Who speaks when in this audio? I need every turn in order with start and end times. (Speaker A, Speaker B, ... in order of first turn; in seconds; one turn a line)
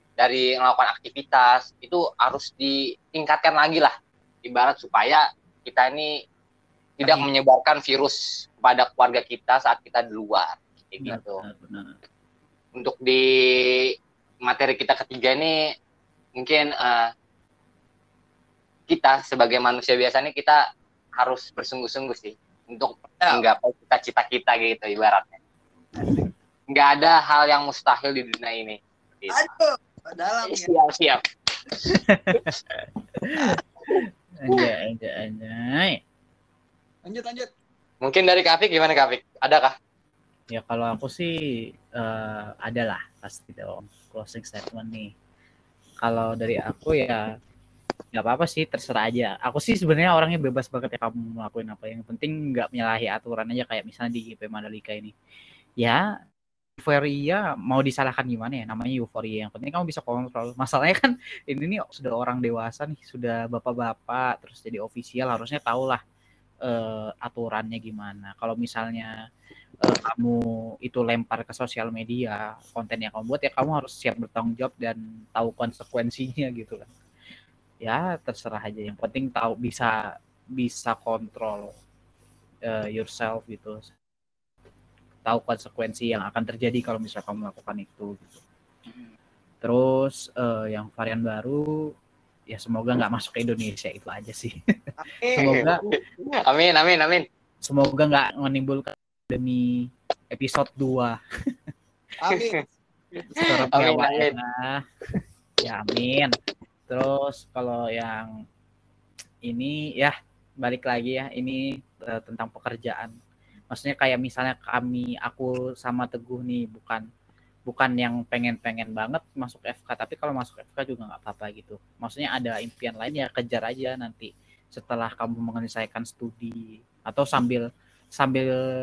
Speaker A: 0.2-3.9
Speaker A: 4.4-6.1
Speaker A: 7.0-11.4
Speaker B: 11.0-11.9
Speaker A: 12.7-15.5
Speaker A: 16.4-17.1
Speaker A: 18.9-20.6
Speaker A: 21.2-25.4
Speaker C: 23.1-23.4
Speaker B: 26.0-26.3
Speaker A: 26.7-29.5
Speaker C: 29.3-30.7
Speaker A: 30.5-31.2
Speaker B: 31.9-32.5
Speaker B: 33.4-36.0
Speaker C: 37.0-37.5
Speaker A: 38.0-39.7
Speaker B: 40.5-41.4
Speaker B: 42.0-45.1
Speaker B: 46.0-47.2
Speaker B: 48.1-55.1
Speaker B: 56.8-66.0
Speaker B: 66.7-69.1
Speaker B: 69.8-76.9
Speaker B: 77.8-80.0
Speaker B: 80.6-81.7
Speaker B: 82.7-83.9
Speaker B: 85.2-88.4
Speaker C: 88.9-89.1
Speaker B: 89.6-91.6
Speaker B: 92.5-94.5
Speaker C: 95.0-95.6
Speaker B: 95.3-95.8
Speaker A: 95.4-97.2
Speaker B: 97.6-101.2
Speaker C: 102.2-102.6
Speaker B: 103.3-104.8
Speaker A: 103.7-104.3
Speaker B: 105.6-106.3
Speaker B: 106.9-108.3
Speaker B: 109.5-113.1
Speaker B: 113.7-117.0
Speaker B: 117.7-127.6
Speaker B: 128.2-128.5